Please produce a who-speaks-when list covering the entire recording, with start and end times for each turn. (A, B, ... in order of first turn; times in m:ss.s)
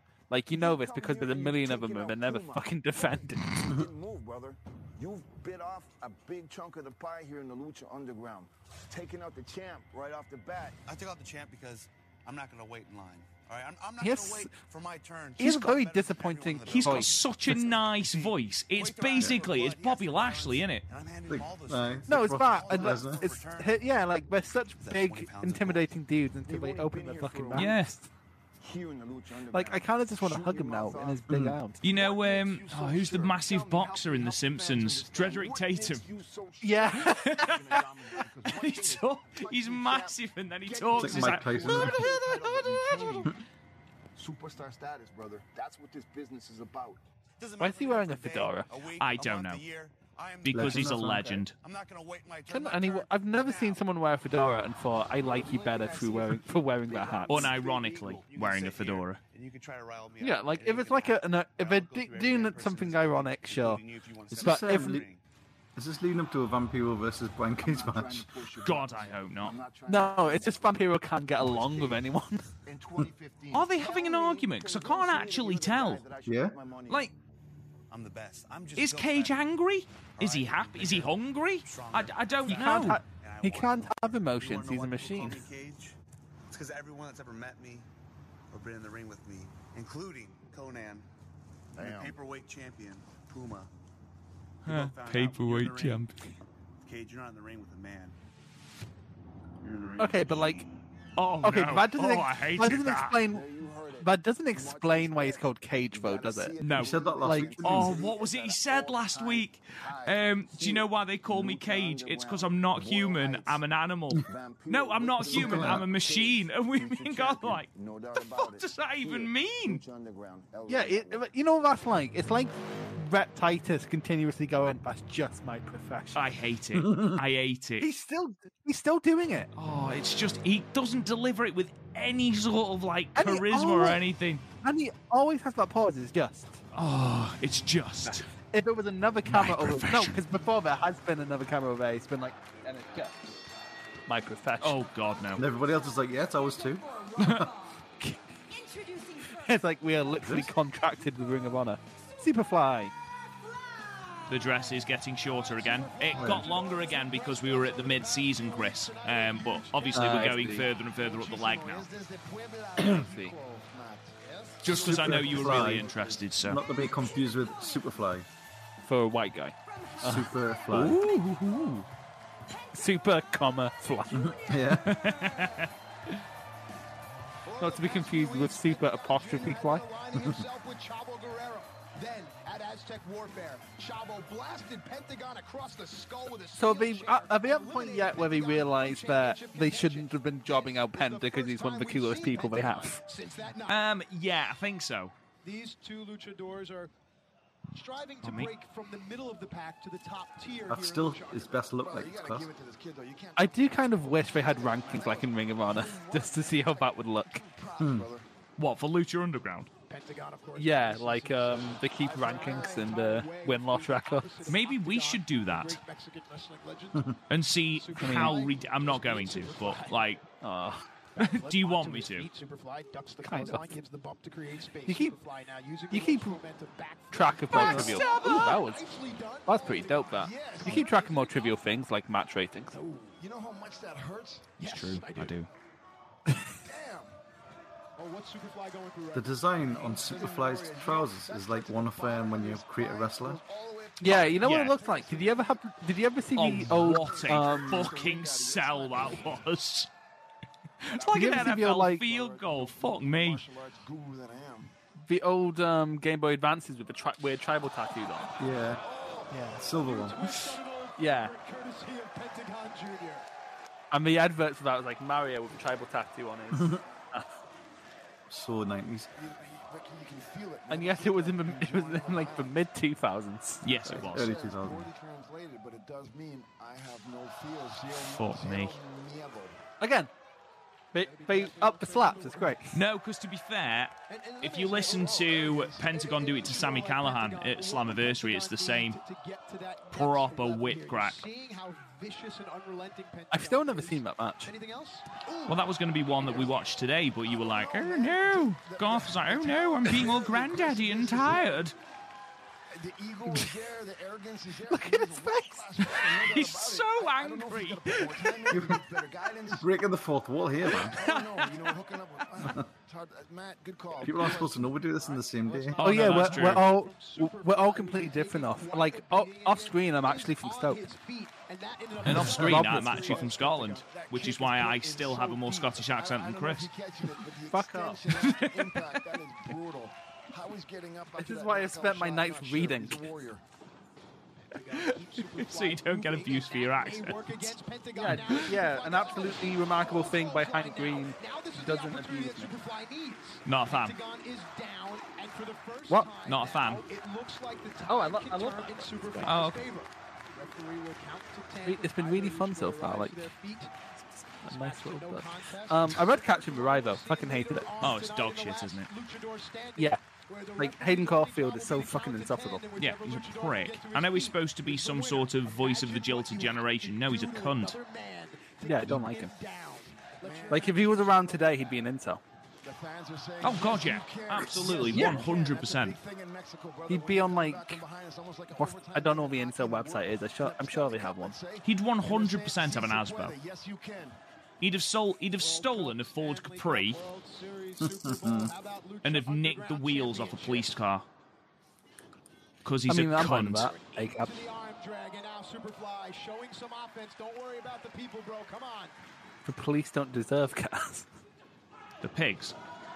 0:00.3-0:03.7 A
0:00.5-0:10.8 B
0:10.8-0:24.1 C
0:14.0-0:14.5 A
0:15.4-0:17.7 A
0:16.6-0:20.8 D
0:21.3-0:23.4 E
0:22.1-0:28.1 A
0:22.6-0:23.4 B
0:24.8-0:25.9 C
0:26.4-0:27.8 B
0:27.5-0:27.9 D
0:28.6-0:31.3 B
0:29.5-0:31.8 A
0:31.3-0:31.6 E
0:31.8-0:43.4 B
0:31.8-0:36.0 D
0:36.6-0:37.6 A
0:37.0-0:43.2 D
0:41.0-0:42.0 E
0:41.6-0:43.3 A
0:44.1-0:47.0 B
0:47.4-0:53.8 C
0:47.6-0:48.7 A
0:49.0-0:49.6 D
0:50.4-0:51.5 D
0:50.5-0:51.4 E
0:52.5-0:57.5 A
0:55.2-0:58.3 B
0:57.3-0:59.2 D
0:58.2-1:05.2 C
1:00.2-1:03.8 A
1:04.3-1:05.0 E
1:04.4-1:05.0 A
1:05.8-1:08.3 E
1:07.6-1:10.6 B
1:08.6-1:09.5 D
1:09.9-1:12.4 A
1:11.4-1:12.1 B
1:12.6-1:17.1 B
1:13.5-1:16.0 D
1:16.2-1:16.6 E
1:16.9-1:17.1 D
1:17.9-1:19.4 C
1:18.8-1:23.0 D
1:20.2-1:26.0 C
1:22.5-1:25.4 A
1:26.5-1:27.9 C
1:28.5-1:31.1 C
1:31.7-1:33.7 C
1:31.8-1:32.2 B
1:34.6-1:36.0 C
1:34.6-1:36.2 D
1:36.8-1:38.1 C
1:39.6-1:40.7 C
1:40.0-1:40.6 A
1:41.2-1:43.2 D
1:41.4-1:43.5 A
1:43.2-1:53.6 B
1:44.0-1:46.6 A
1:46.6-1:46.9 D
1:46.7-1:48.0 E
1:47.2-1:47.8 A
1:47.6-1:59.8 D
1:54.2-2:01.3 B
1:55.2-1:55.9 E
2:00.7-2:06.3 A
2:06.1-2:07.9 D
2:06.7-2:07.2 E
2:07.8-2:09.5 A
2:09.5-2:14.4 D
2:13.2-2:14.0 A
2:14.6-2:16.6 A
2:16.7-2:18.3 D
2:18.0-2:23.1 A
2:19.2-2:20.2 D
2:24.0-2:24.8 A
2:24.6-2:25.4 D
2:25.3-2:27.9 F
2:25.4-2:27.5 E
2:27.2-2:27.5 D
2:28.5-2:29.7 F
2:29.3-2:32.9 A
2:30.2-2:30.5 E
2:31.0-2:31.3 F
2:33.3-2:34.8 F
2:34.3-2:41.9 D
2:35.2-2:40.6 G
2:36.1-2:37.0 F
2:36.2-2:36.5 E
2:39.9-2:40.7 A
2:40.8-2:44.2 B
2:42.8-2:43.3 A
2:44.2-2:44.6 G
2:44.6-2:46.6 D
2:44.7-2:46.3 B
2:44.7-2:45.8 A
2:44.7-2:48.2 E
2:46.6-2:48.0 F
2:48.8-2:51.8 A
2:49.6-2:51.8 F
2:50.0-2:51.0 E
2:52.5-2:53.4 F
2:52.7-2:54.4 A
2:54.0-2:55.7 F
2:54.1-2:55.0 E
2:54.8-2:55.7 D
2:57.4-3:13.8 G
2:57.6-2:59.9 A
3:06.6-3:13.0 A
3:13.7-3:15.1 D
3:15.4-3:16.9 G
3:17.7-3:21.6 G
3:18.2-3:18.5 D
3:20.7-3:22.5 E
3:21.8-3:28.3 B
3:23.4-3:27.4 A
3:27.8-3:28.1 E
3:28.6-3:29.7 D
3:29.9-3:40.2 G
3:30.6-3:34.5 A
3:32.0-3:32.9 B
3:34.5-3:35.8 D
3:37.3-3:40.2 D
3:38.0-3:38.5 A
3:40.4-3:40.8 A
3:41.2-3:51.6 G
3:41.2-3:42.3 D
3:43.2-3:43.7 A
3:44.9-3:45.2 A
3:45.9-3:46.4 A
3:47.1-3:48.8 A
3:47.5-3:48.6 D
3:49.5-3:52.8 A
3:50.2-3:51.3 B
3:52.7-3:53.2 G
3:53.2-3:54.5 B
3:54.6-3:55.4 G
3:54.6-3:55.5 D
3:56.6-3:57.2 B
3:58.0-3:59.5 G
3:59.1-4:03.4 E
3:59.6-4:05.6 B
4:04.0-4:08.0 A
4:04.4-4:04.8 D
4:06.3-4:09.9 D
4:06.4-4:09.5 B
4:10.8-4:13.4 D
4:10.9-4:14.7 B
4:11.1-4:12.0 A
4:15.0-4:18.4 A
4:17.9-4:18.8 G
4:18.4-4:18.8 E
4:18.5-4:19.5 B
4:19.3-4:19.6 A
4:19.4-4:23.2 G
4:19.6-4:20.3 E
4:21.0-4:21.3 A
4:23.9-4:27.3 A
4:26.5-4:26.8 E
4:28.3-4:29.1 E
4:29.1-4:32.5 B
4:30.7-4:34.0 A
4:33.6-4:34.3 D
4:34.0-4:39.6 B
4:34.1-4:34.9 E
4:38.1-4:38.8 D
4:39.8-4:40.1 A
4:40.9-4:42.8 A
4:41.0-4:42.6 G
4:42.7-4:49.0 D
4:44.1-4:45.2 G
4:44.8-4:46.4 B
4:45.8-4:55.1 G
4:49.9-4:51.2 D
4:53.3-4:54.5 A
4:55.2-4:55.6 B
4:55.5-5:01.7 D
4:56.2-4:56.6 B
4:57.2-5:01.7 B
5:02.7-5:09.7 B
5:04.7-5:05.9 A
5:05.9-5:08.6 D
5:08.5-5:08.8 E
5:09.5-5:11.0 E
5:10.7-5:16.2 B
5:10.8-5:11.5 D
5:14.0-5:15.9 E
5:15.8-5:16.7 D
5:15.8-5:20.8 A
5:15.9-5:25.2 G
5:22.0-5:26.7 D
5:22.0-5:23.2 A
5:24.9-5:33.4 B
5:27.5-5:28.1 A
5:28.2-5:29.0 D
5:31.2-5:33.0 A
5:34.5-5:53.7 G
5:34.6-5:38.5 D
5:38.0-5:42.5 A
5:43.4-5:44.0 D
5:46.2-5:46.8 D
5:47.9-5:49.3 A
5:49.2-5:49.7 D
5:51.6-5:53.3 A
5:54.4-5:58.0 A
5:54.4-6:11.4 G
5:57.8-5:58.9 D
6:00.6-6:02.6 A
6:02.8-6:07.8 D
6:08.6-6:09.3 A
6:10.2-6:11.7 B
6:10.5-6:12.2 A
6:12.6-6:24.2 B
6:13.4-6:16.0 D
6:14.9-6:15.3 A
6:16.9-6:17.8 A
6:18.5-6:21.4 A
6:21.6-6:23.4 D
6:24.6-6:27.0 D
6:25.4-6:30.8 G
6:27.8-6:28.5 E
6:29.0-6:31.1 D
6:32.6-6:33.7 D
6:32.9-6:34.4 A
6:33.3-6:38.9 G
6:39.4-6:41.1 A
6:42.0-6:42.5 D